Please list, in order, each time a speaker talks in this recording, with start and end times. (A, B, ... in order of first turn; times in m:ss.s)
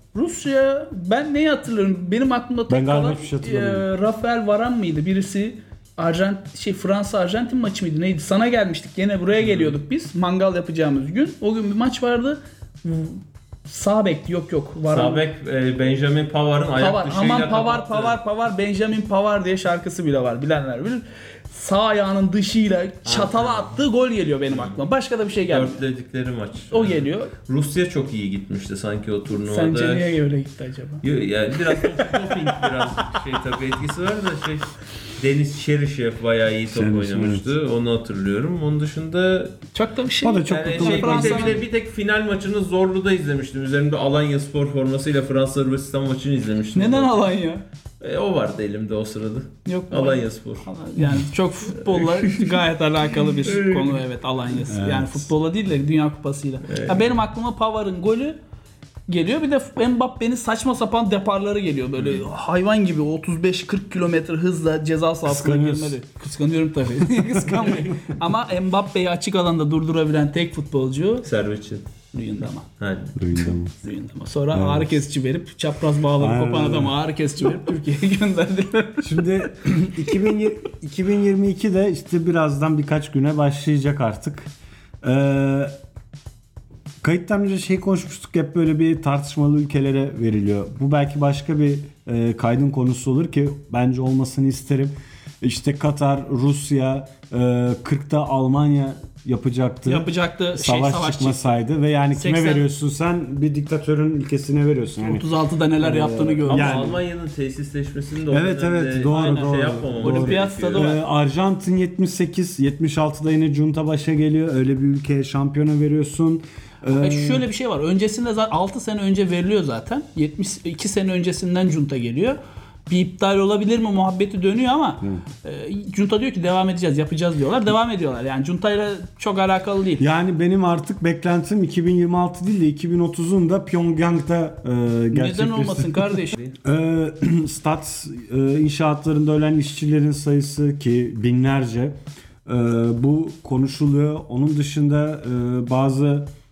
0:00.1-0:15.2 A
0:02.7-0:03.9 B
0:09.4-0:09.7 C
0:14.9-0:18.2 C
0:16.8-0:25.8 A
0:23.0-0:23.8 C
0:24.5-0:24.8 C
0:25.5-0:30.1 C
0:26.7-0:27.3 A
0:29.4-0:31.0 A
0:31.0-0:39.6 C
0:31.7-0:32.0 A
0:36.7-0:37.5 B
0:39.7-0:41.6 A
0:40.2-0:41.6 B
0:40.4-0:47.3 C
0:46.7-0:47.6 A
0:48.0-0:50.7 C
0:49.6-0:58.4 A
0:51.7-0:52.6 C
0:53.4-0:54.0 C
0:54.7-0:55.3 B
0:56.7-0:57.1 C
0:59.1-1:11.3 A
1:02.0-1:02.2 C
1:05.2-1:06.0 B
1:07.2-1:07.9 B
1:11.2-1:11.9 C
1:12.1-1:12.6 A
1:12.8-1:13.2 C
1:13.2-1:13.7 B
1:13.4-1:19.5 A
1:14.5-1:15.0 B
1:16.2-1:17.0 B
1:19.0-1:24.5 B
1:25.0-1:25.7 B
1:27.0-1:45.2 B
1:39.8-1:41.5 A
1:42.1-1:42.6 A
1:45.0-1:46.9 A
1:45.8-1:47.0 B
1:46.4-1:50.9 C
1:48.3-1:57.4 B
1:49.1-1:51.0 A
1:57.0-2:10.0 A
2:10.0-2:26.3 B
2:15.1-2:16.4 A